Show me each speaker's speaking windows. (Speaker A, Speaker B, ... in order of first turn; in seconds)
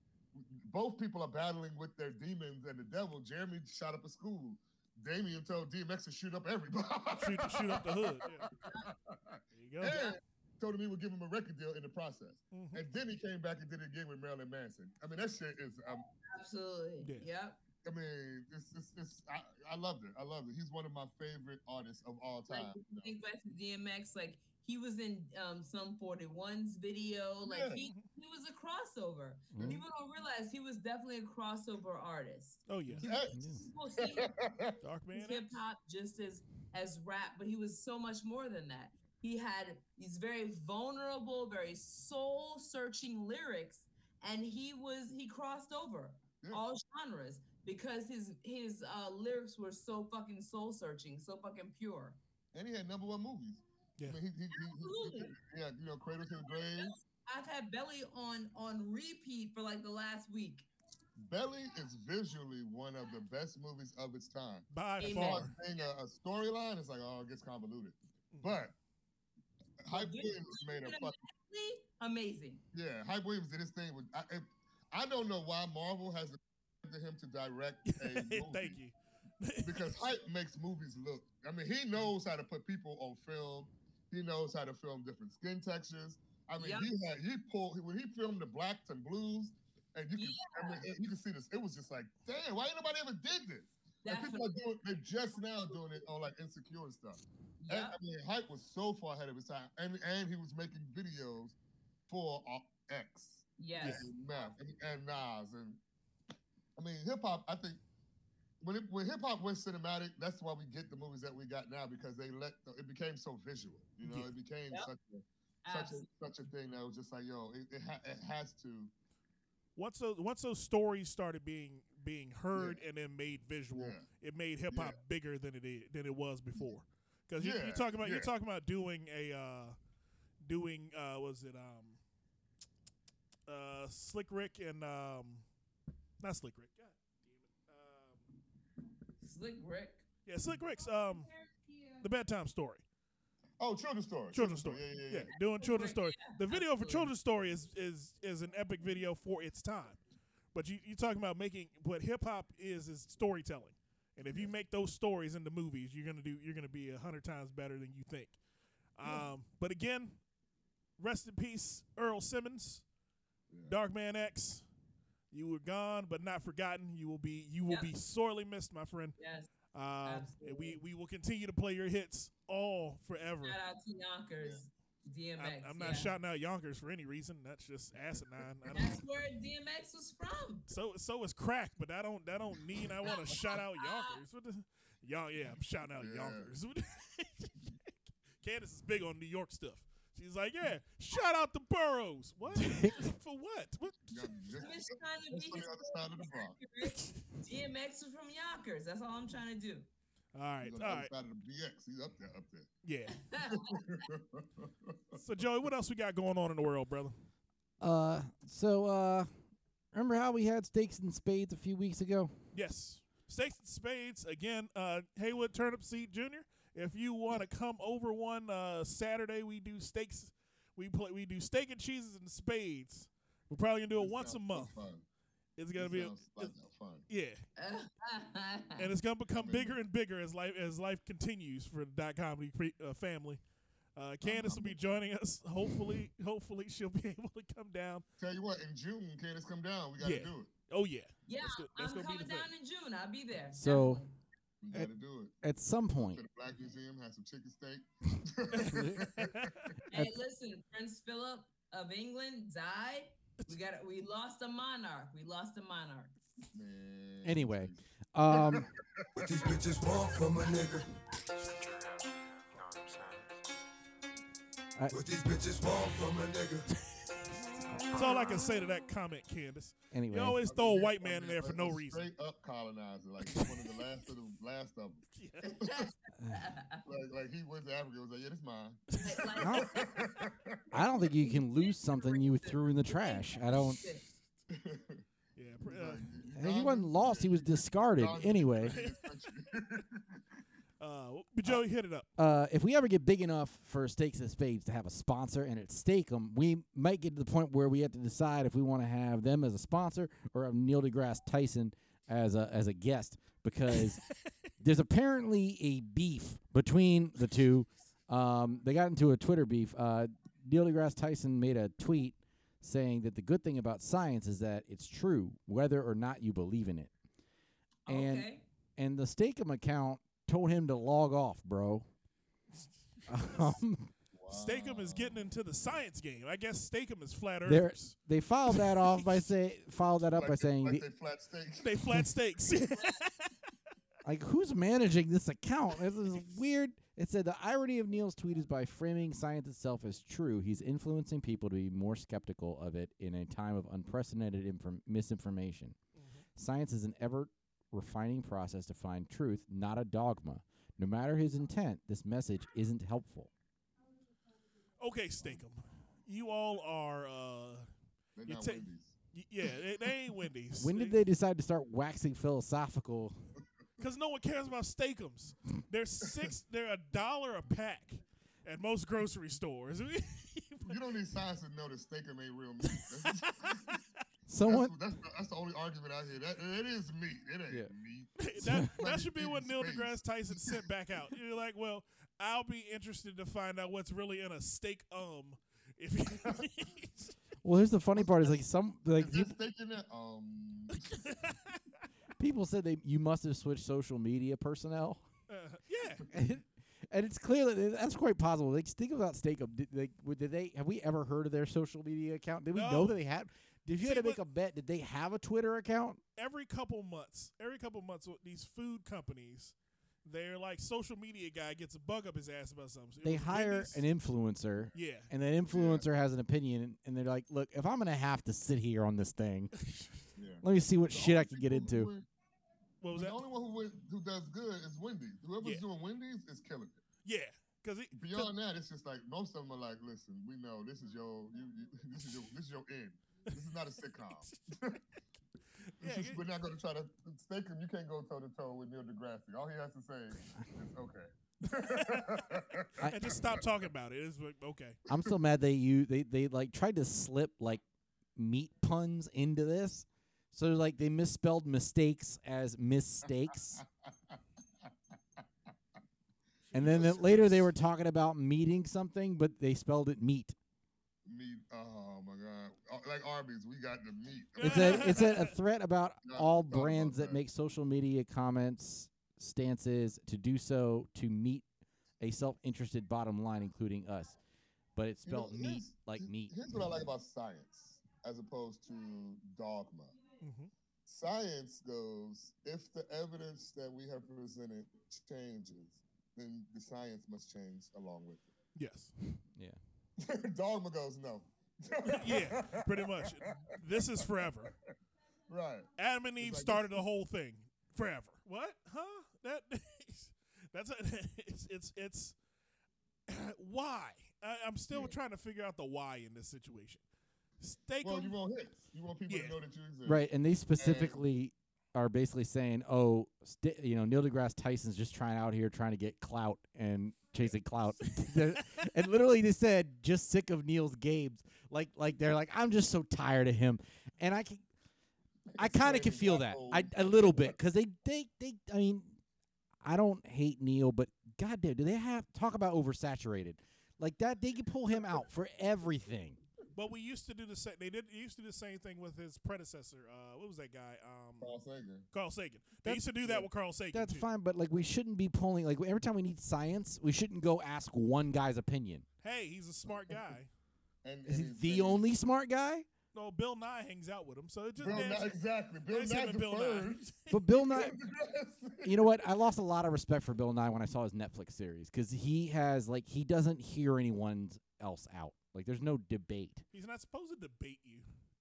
Speaker A: 0.3-16.1, 17.8-23.1, 27.5-27.9, 32.9-34.8, 52.5-57.0, 61.2-68.7, 69.8-71.2, 72.7-78.8, 79.6-101.6, 102.1-105.8, 106.8-107.8, 108.6-118.9, 122.5-122.8, 123.7-124.1, 124.7-125.0, 127.4-128.3, 143.6-145.3, 163.5-163.8, 178.6-178.9, 186.0-186.5, 194.1-194.8, 195.3-196.6, 200.6-202.7, 203.4-205.2, 224.0-225.0, 225.8-227.1, 229.3-229.8, 234.2-234.8, 238.2-240.5, 244.6-245.4, 246.1-249.5, 256.5-259.5, 270.5-275.1, 275.6-275.9, 276.8-280.8, 284.5-285.1, 285.6-290.2, 324.1-325.3, 330.1-331.9, 358.2-358.9, 370.6-373.8, 374.4-380.7, 388.0-388.4, 388.9-391.0, 415.5-415.9, 420.2-422.1, 422.9-426.8, 427.9-434.8, 435.8-443.3, 453.6-454.2, 456.5-457.4, 461.1-465.1, 466.0-467.2, 475.1-480.0, 480.9-488.3, 490.0-493.5, 495.3-495.7, 496.2-496.8, 507.8-510.1, 510.6-511.0, 525.3-527.4, 541.2-541.9, 543.0-543.3, 549.7-550.1, 550.8-551.9, 554.6-558.9
Speaker B: 7.2-8.5, 9.5-10.0, 12.5-12.8, 32.7-33.1, 34.8-35.6, 64.7-65.6, 68.3-68.6, 77.9-80.1, 103.8-104.1, 114.0-114.3, 119.8-129.8, 130.4-132.0, 133.5-135.5, 136.2-138.3, 140.3-141.3, 142.0-142.8, 144.3-150.0, 150.5-158.4, 158.9-160.2, 161.0-162.8, 163.7-164.7, 165.3-169.2, 169.7-173.6, 175.4-179.0, 180.7-187.7, 188.4-194.4, 196.8-197.2, 200.3-201.1, 202.8-203.2, 205.2-207.2, 212.5-224.8, 225.6-226.6, 227.1-227.4, 228.8-233.4, 234.0-238.0, 240.0-242.5, 248.5-249.8, 267.9-272.1, 275.1-275.5, 278.9-279.4, 285.4-286.1, 288.6-289.3, 290.8-292.1, 324.3-327.9, 328.5-329.1, 331.6-333.3, 346.0-346.2, 354.8-357.7, 358.3-361.0, 363.8-370.8, 373.1-373.8, 378.2-387.2, 391.1-391.4, 395.3-396.0, 402.5-403.0, 403.8-404.2, 406.2-413.8, 414.8-415.1, 422.8-423.2, 427.1-428.3, 435.8-436.2, 441.5-444.8, 456.6-457.0, 464.4-465.3, 480.2-480.5, 488.6-488.9, 491.9-494.5, 495.8-502.2, 503.1-506.8, 507.4-508.1, 509.1-509.4, 536.5-541.3, 541.9-544.1, 549.0-550.3, 552.9-557.2, 566.5-567.9
Speaker C: 9.9-10.2, 16.2-17.6, 22.5-34.3, 35.1-52.2, 54.5-55.4, 56.3-60.7, 65.0-65.5, 69.9-72.6, 86.6-86.9, 90.2-90.8, 94.0-94.5, 97.6-98.0, 103.6-104.1, 115.6-116.1, 139.2-140.0, 145.3-147.1, 169.2-169.5, 170.1-170.8, 173.4-176.1, 178.8-180.7, 183.1-184.2, 194.6-199.9, 203.1-203.8, 227.6-228.9, 241.3-244.2, 249.9-256.1, 275.4-276.8, 279.0-279.9, 281.0-284.0, 317.9-318.4
Speaker D: 29.5-29.8, 33.3-33.6, 192.6-193.0, 207.8-209.3, 209.9-212.4, 243.5-244.0, 245.4-246.2, 248.6-249.1, 257.2-258.7, 264.8-265.0, 269.9-270.4, 279.4-279.8, 280.7-283.8, 286.4-288.8, 292.2-304.1, 304.6-316.9, 317.9-321.9, 323.1-323.9, 327.5-330.9, 334.1-345.8, 346.4-353.3, 360.6-363.3, 374.3-374.7, 378.4-378.7, 387.4-389.3, 392.2-395.0, 396.1-406.0, 413.0-419.5, 420.4-421.9, 442.8-443.2, 444.9-447.6, 448.2-453.6, 456.5-460.4, 464.4-471.4, 472.0-474.2, 474.8-476.4, 509.9-524.5, 525.4-529.0, 529.6-536.2, 543.7-548.9, 551.0-552.7, 557.1-557.8, 558.6-566.5
Speaker E: 259.2-263.3, 264.9-266.7